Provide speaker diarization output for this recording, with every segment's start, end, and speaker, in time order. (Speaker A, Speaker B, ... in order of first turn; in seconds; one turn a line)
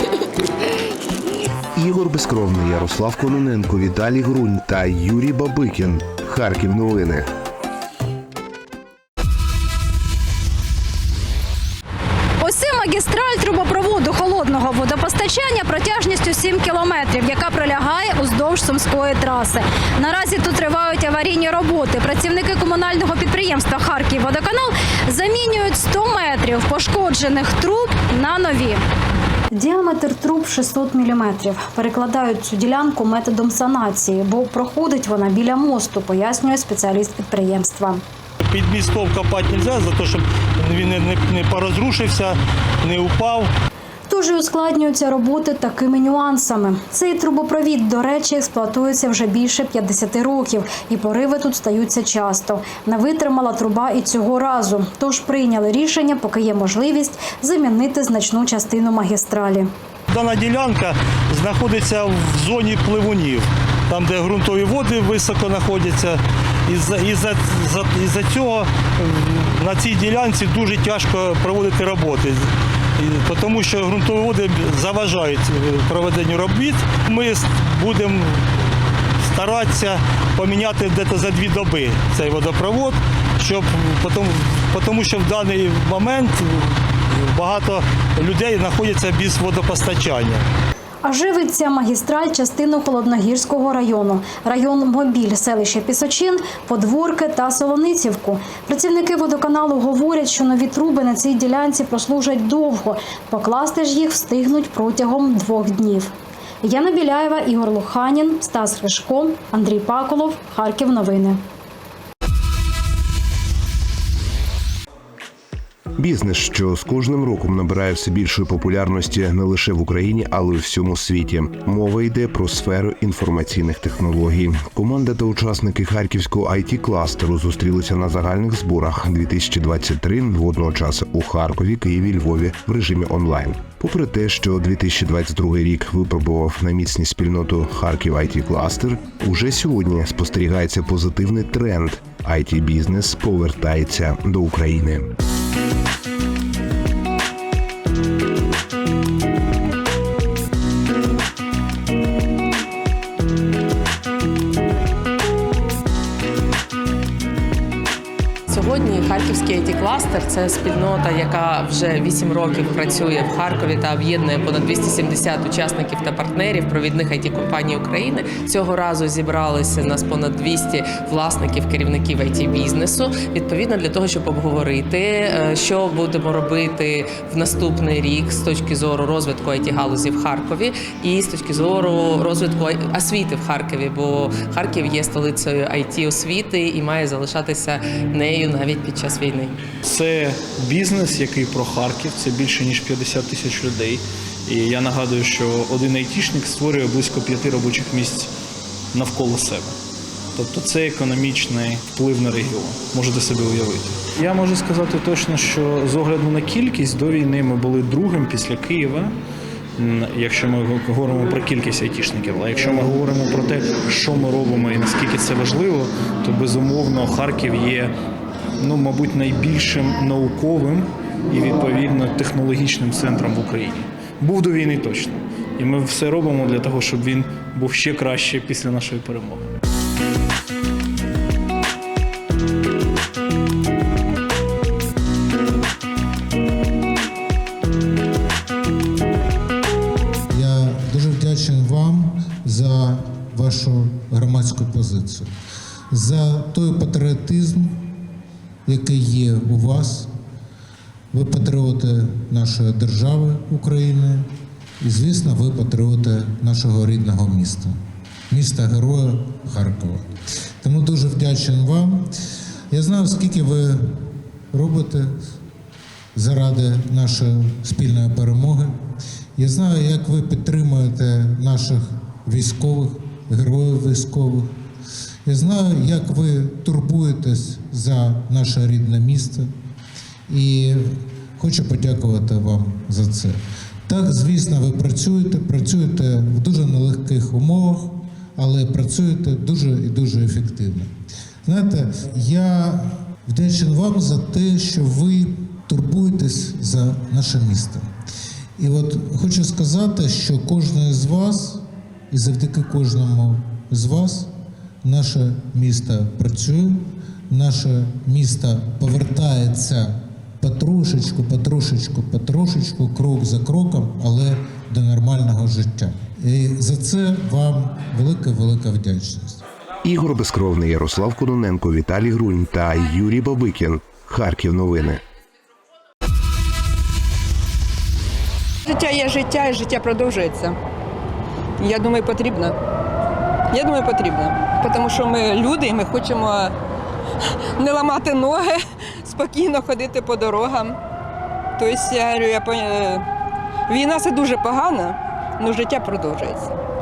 Speaker A: 1.7-7.3
Speaker B: 12.4-28.8
Speaker B: 29.5-38.0
Speaker C: 38.5-42.3
Speaker B: 38.6-40.2
Speaker B: 40.8-42.2
Speaker C: 42.8-43.5
Speaker B: 42.9-43.4
Speaker B: 44.1-60.8
Speaker C: 60.1-66.1
Speaker B: 61.4-66.0
Speaker C: 66.7-68.6
Speaker B: 66.8-67.3
Speaker C: 69.6-72.3
Speaker B: 69.7-72.1
Speaker C: 73.0-78.2
Speaker B: 73.4-74.1
Speaker B: 74.9-75.3
Speaker B: 76.5-76.7
Speaker B: 77.6-78.0
Speaker B: 79.3-79.8
Speaker C: 79.3-86.3
Speaker B: 80.4-82.9
Speaker B: 84.8-85.5
Speaker C: 87.3-90.4
Speaker B: 87.4-90.3
Speaker B: 91.0-106.1
Speaker B: 106.6-111.4
Speaker A: 116.0-145.1
Speaker D: 158.5-189.6
Speaker E: 189.8-198.3
Speaker E: 198.9-199.8
Speaker E: 200.3-209.1
Speaker E: 209.8-217.9
Speaker E: 218.6-229.5
Speaker F: 240.3-245.3
Speaker F: 245.9-247.8
Speaker F: 248.7-250.1
Speaker F: 251.1-254.3
Speaker F: 254.8-257.7
Speaker F: 258.3-260.1
Speaker F: 260.6-262.1
Speaker F: 262.7-265.1
Speaker F: 266.1-268.8
Speaker F: 269.4-274.5
Speaker F: 275.2-279.5
Speaker F: 280.3-290.9
Speaker F: 291.4-297.8
Speaker F: 298.6-304.3
Speaker F: 304.8-319.4
Speaker A: 319.8-325.0
Speaker G: 328.6-330.5
Speaker G: 331.6-332.5
Speaker G: 333.5-336.5
Speaker G: 337.6-340.8
Speaker G: 341.6-343.0
Speaker G: 343.7-346.5